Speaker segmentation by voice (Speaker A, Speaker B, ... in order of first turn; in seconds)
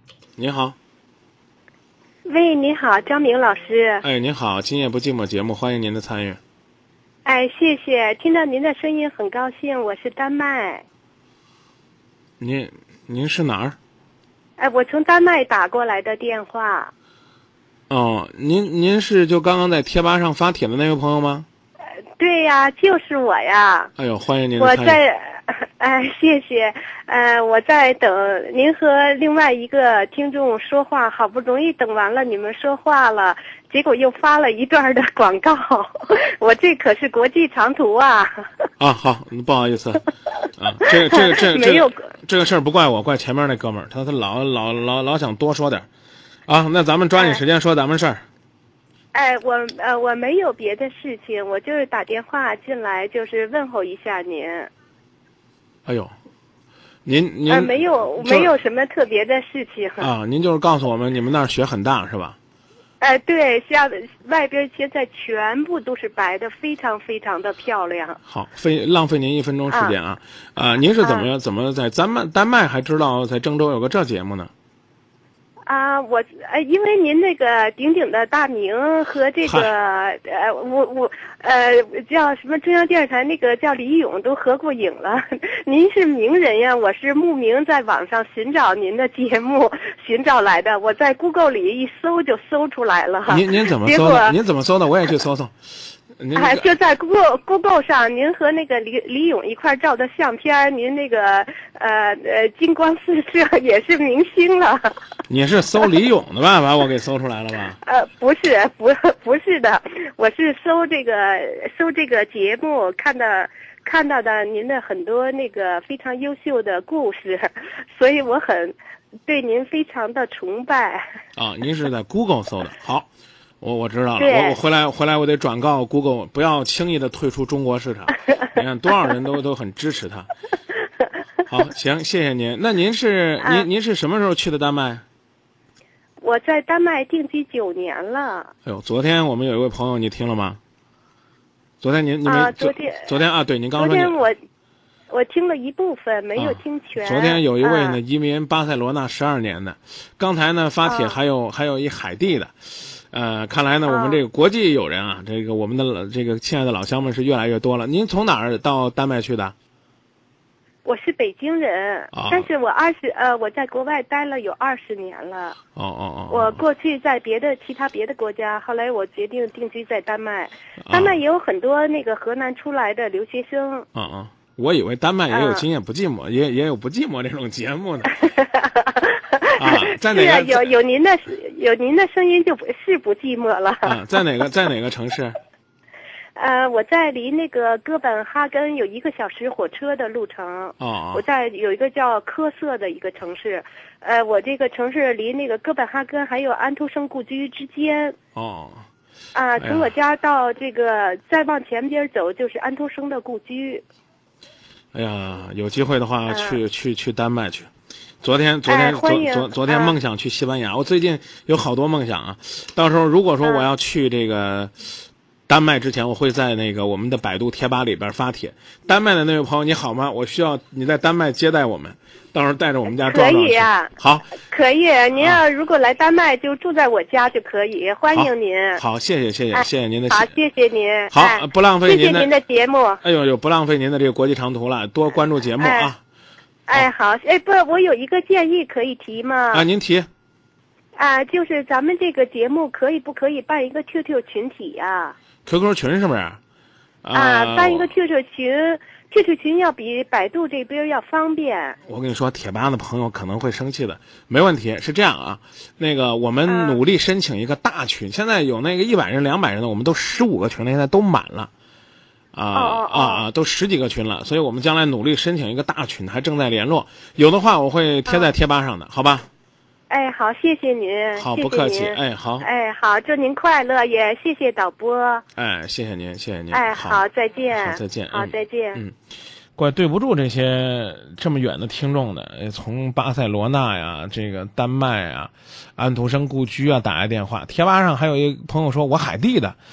Speaker A: 0.4-0.8, 4.0-6.4, 12.4-13.8, 17.9-21.4, 24.0-25.0, 38.8-40.0, 40.6-45.9, 46.5-48.2, 55.9-56.1, 57.0-58.5, 60.0-62.4, 68.2-74.5, 93.3-95.5, 96.2-96.7, 105.3-107.8, 121.3-123.1, 123.6-130.3, 131.5-135.0, 138.6-140.6, 141.8-144.2, 146.3-152.5, 153.1-159.5, 162.1-162.5, 165.8-166.6, 170.8-171.2, 173.9-178.2, 179.6-180.7, 183.8-185.4, 190.8-191.2, 198.3-198.8, 199.6-199.9, 204.9-207.7, 208.2-214.7, 215.5-224.3, 228.1-230.3, 231.1-232.3, 233.0-236.0, 239.5-240.1, 245.4-246.4, 247.0-247.9, 251.8-261.5, 262.3-269.3, 271.1-272.4, 275.4-278.9, 279.6-289.6
Speaker B: 2.2-4.0, 7.2-10.8, 14.6-16.9, 22.2-23.9, 24.6-38.5, 40.9-42.0, 49.1-54.7, 57.5-60.1, 63.0-68.2, 69.7-70.0, 71.0-71.3, 75.7-94.4, 96.3-104.9, 107.8-118.8, 119.3-121.1, 124.2-124.6, 133.4-133.7, 136.2-138.5, 142.2-143.1, 143.8-144.4, 145.1-148.0, 150.8-151.2, 153.9-154.2, 160.8-165.6, 166.3-173.8, 175.3-175.6, 178.2-184.0, 186.3-198.2, 199.3-203.8, 206.3-206.6, 208.7-209.9, 213.4-213.7, 222.9-228.8, 229.5-233.0, 235.6-235.9, 236.7-239.7, 240.9-245.2, 247.1-251.8, 256.5-256.8, 262.5-263.2, 269.9-275.2, 276.5-278.8